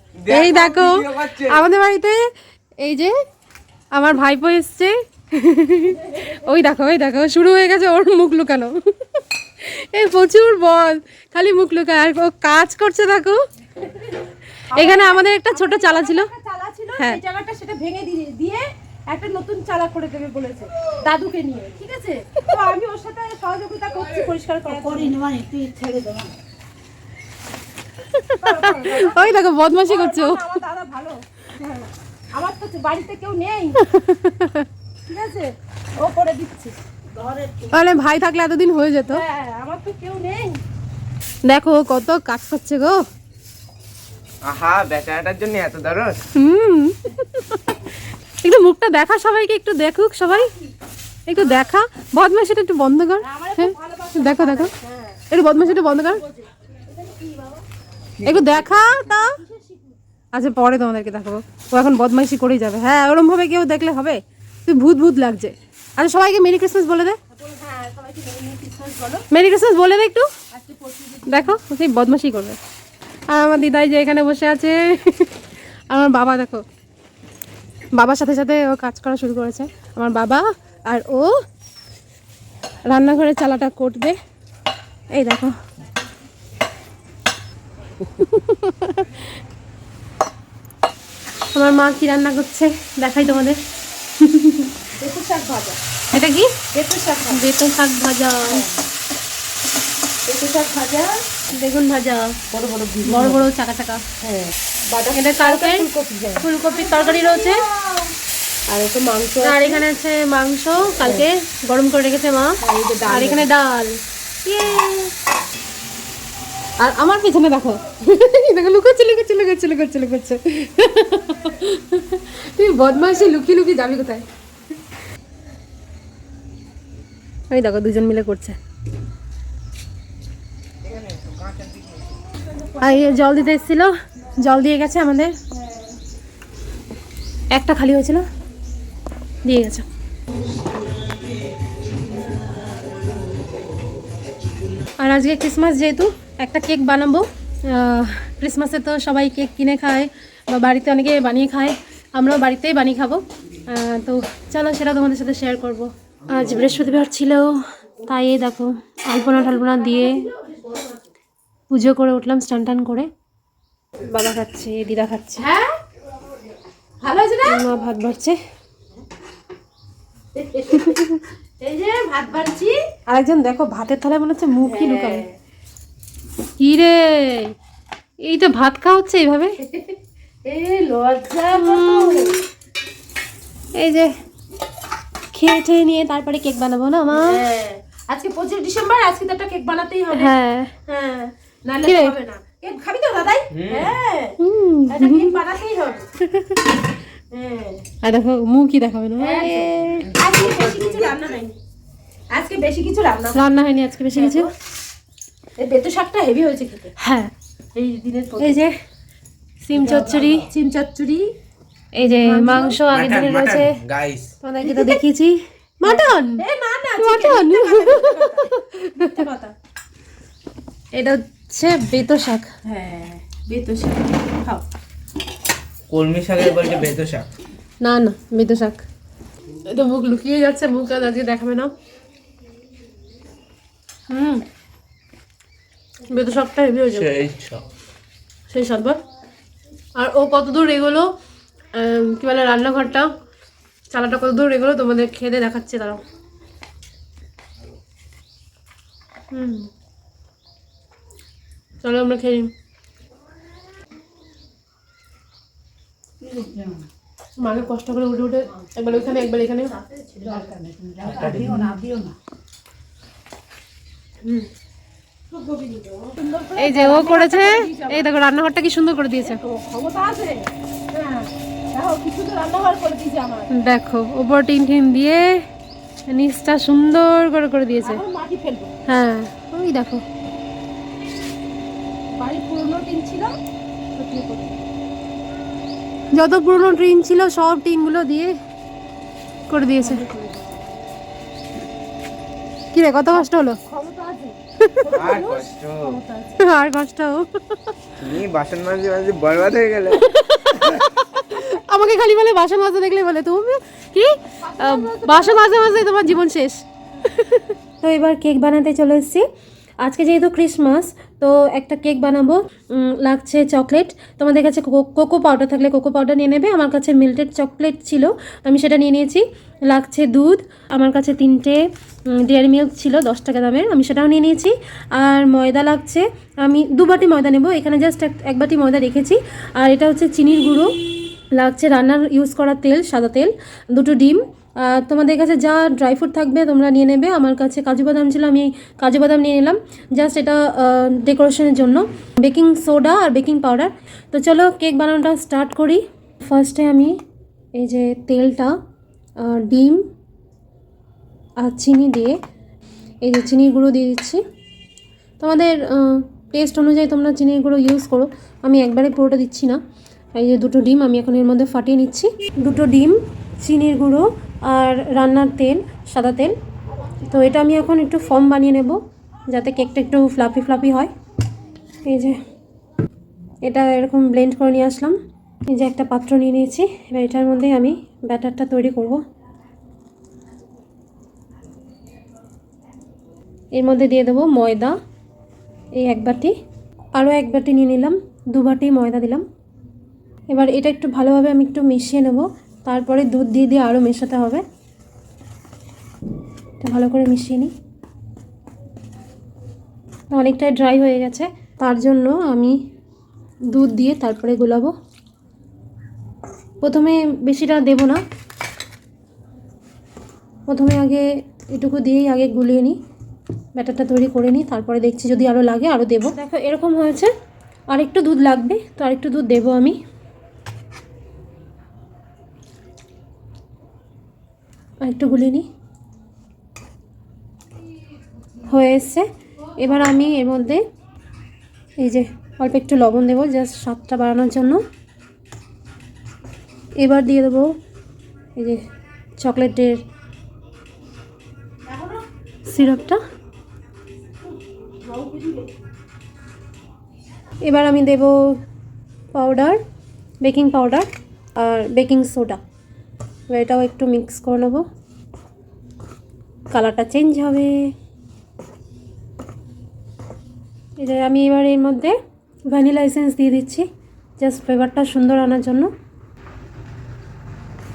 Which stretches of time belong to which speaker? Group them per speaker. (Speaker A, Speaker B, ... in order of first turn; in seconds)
Speaker A: 0.2-1.6, 44.4-46.2, 130.9-131.7, 193.5-193.9, 200.0-201.2, 212.9-214.3, 225.9-227.3, 236.9-237.6, 261.0-261.7, 294.9-296.0, 298.0-300.0
Speaker B: 0.3-3.1, 3.9-13.4, 14.7-16.3, 24.1-25.1, 28.1-30.5, 33.8-34.7, 37.7-39.2, 41.4-43.0, 46.3-50.5, 51.3-54.7, 55.3-56.2, 58.2-59.4, 60.3-67.2, 69.3-70.3, 71.3-72.6, 73.3-75.4, 75.9-76.6, 77.9-81.3, 82.8-84.2, 85.1-85.6, 88.0-89.2, 91.5-93.6, 94.2-94.8, 96.1-96.6, 97.3-98.6, 101.5-102.4, 103.0-104.0, 105.1-105.9, 106.4-107.6, 109.4-112.5, 113.1-115.1, 116.8-124.2, 127.5-128.6, 132.8-135.3, 137.5-138.2, 139.4-139.8, 145.0-160.2, 161.7-163.1, 164.0-165.4, 167.4-168.4, 170.8-171.2, 173.1-175.2, 176.6-177.5, 178.2-179.6, 181.5-182.3, 183.7-184.1, 185.3-187.4, 190.1-190.7, 191.8-192.1, 194.4-195.3, 196.2-196.6, 198.0-200.1, 203.3-204.5, 207.0-207.3, 208.4-208.7, 209.6-210.5, 211.9-213.8, 214.4-216.4, 217.0-219.2, 220.9-222.5, 227.8-228.8, 229.6-231.7, 234.1-234.4, 236.1-237.1, 238.5-239.0, 239.9-241.1, 241.7-243.1, 243.9-246.0, 249.3-249.7, 251.8-252.5, 257.4-259.7, 266.6-269.4, 273.5-275.4, 276.1-278.0, 278.9-280.0, 286.1-288.3, 289.5-290.0, 292.7-293.6, 294.6-294.9, 296.4-297.7, 300.0-309.2, 309.8-330.7, 331.3-347.0, 347.6-348.6, 349.2-349.8, 351.4-352.1, 353.0-354.2, 355.2-359.6, 360.1-366.3, 367.1-370.9, 371.8-372.2, 373.4-375.0, 375.5-379.0, 383.5-384.8, 385.8-386.3, 386.9-389.2, 390.3-394.4, 396.6-397.5, 400.1-402.6, 403.5-404.7, 406.6-408.0, 410.5-412.8, 413.5-417.1, 417.7-419.8, 424.8-425.4, 428.4-429.1, 429.6-430.6, 431.8-434.6, 436.8-437.5, 438.3-438.6, 439.2-439.8, 442.4-443.0, 447.4-448.4, 449.1-449.6, 450.2-452.4, 453.3-454.6, 456.5-457.7, 460.8-461.9, 462.5-463.6, 464.2-465.7
Speaker C: 13.8-14.2, 14.7-26.3, 28.3-33.8, 35.1-37.8, 39.1-40.6, 50.3-50.6, 53.2-57.6, 58.5-60.0, 67.3-69.2, 70.5-71.5, 94.9-95.8, 96.7-97.5, 98.5-98.8, 100.2-101.2, 102.5-103.5, 104.2-108.1, 108.7-109.8, 111.0-111.3, 112.6-113.5, 135.6-135.9, 159.1-161.0, 165.4-165.8, 167.0-167.7, 170.3-172.9, 174.6-175.3, 179.6-182.4, 187.1-190.3, 190.9-194.4, 194.9-196.1, 197.3-197.8, 199.2-201.6, 202.3-203.4, 204.1-204.5, 205.6-206.9, 207.7-208.6, 209.7-211.3, 212.2-212.8, 214.6-215.0, 215.8-219.5, 222.6-224.6, 256.2-256.9, 258.8-262.1, 265.3-268.1, 269.2-273.5, 277.8-278.7, 282.1-283.4, 283.9-284.5, 289.8-290.6, 293.1-296.4, 304.4-305.7, 441.6-442.0, 444.8-445.5